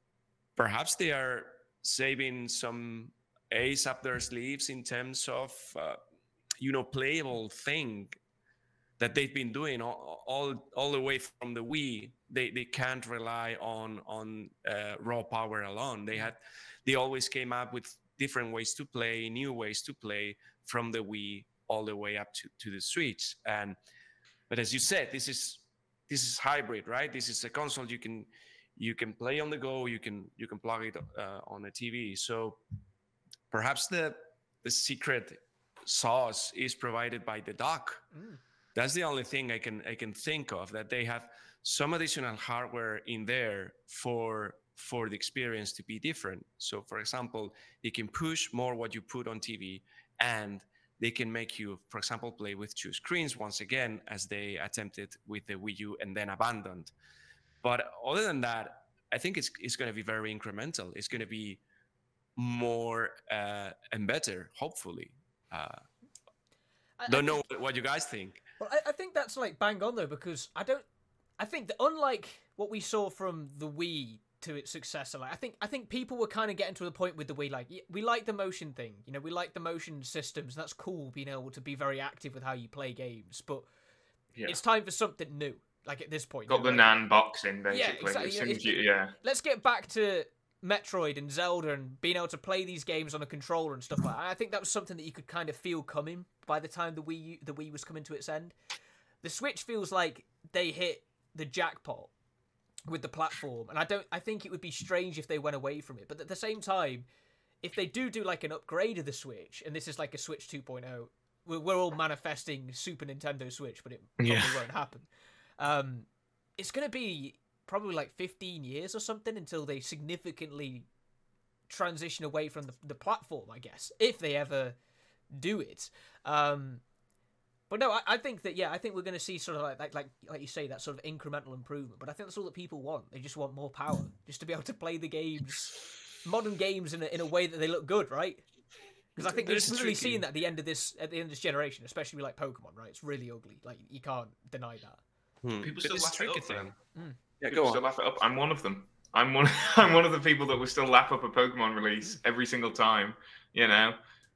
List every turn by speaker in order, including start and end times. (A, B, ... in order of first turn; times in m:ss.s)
0:00.6-0:06.0 A
0:06.6-0:08.2 A
0:09.0-0:23.8 A
0:24.5-0:32.6 A
0:33.5-0:38.1 A
0:38.1-0:38.4 B
0:38.8-0:56.9 A
0:57.6-1:01.6 A
1:02.4-1:05.8 A
1:07.0-1:07.4 B
1:07.1-1:08.4 A
1:08.6-1:10.8 B
1:11.4-1:23.7 B
1:24.5-1:26.9 B
1:26.5-1:29.1 C
1:27.7-1:38.6 B
1:39.2-1:42.1 B
1:42.9-1:47.1 B
1:47.6-1:55.1 B
1:54.2-1:54.6 C
1:55.6-1:56.1 B
1:56.6-2:00.9 B
2:01.7-2:04.8 B
2:05.3-2:06.8 B
2:07.7-2:18.4 B
2:19.2-2:25.0 B
2:19.2-2:20.2 A
2:25.4-2:26.8 A
2:25.6-2:26.7 C
2:27.4-2:27.8 A
2:27.5-2:34.0 C